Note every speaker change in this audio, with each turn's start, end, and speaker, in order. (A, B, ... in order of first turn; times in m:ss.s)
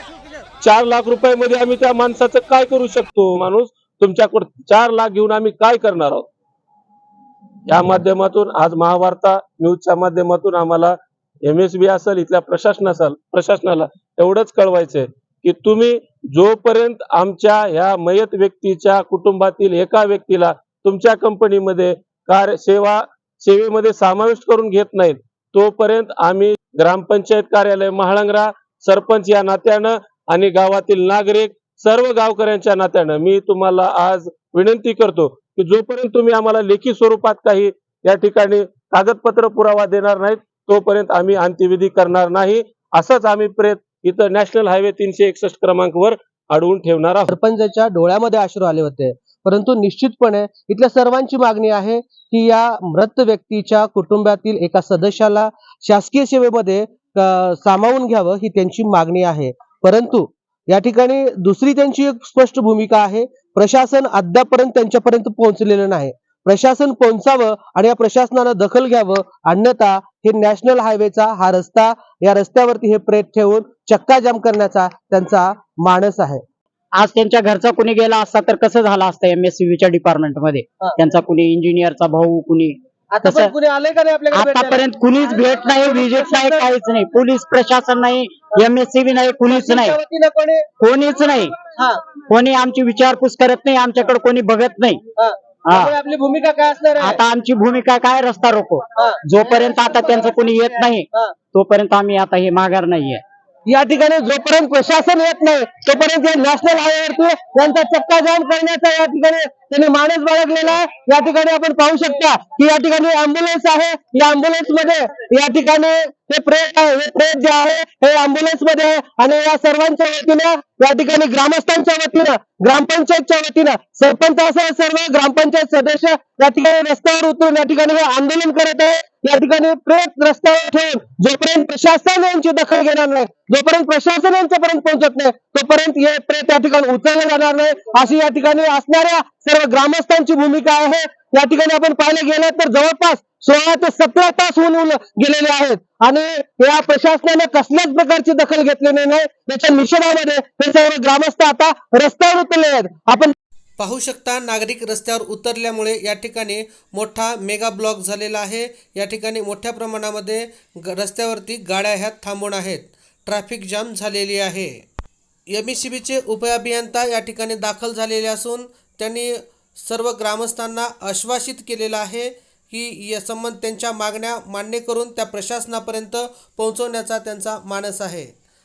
0:00.6-0:06.3 A
0:07.7-0:47.3 A
0:47.3-1:16.4 B
1:17.0-1:23.5 C
1:23.1-1:24.9 B
1:24.3-1:30.0 C
1:25.6-1:26.7 B
1:29.5-1:30.7 B
1:30.8-1:31.6 C
1:32.3-1:35.0 C
1:35.2-1:37.2 B
1:35.7-1:35.9 C
1:37.0-1:43.2 C
1:39.0-1:41.3 B
1:43.7-2:33.3 B
2:33.8-2:44.8 D
2:45.5-2:58.3 D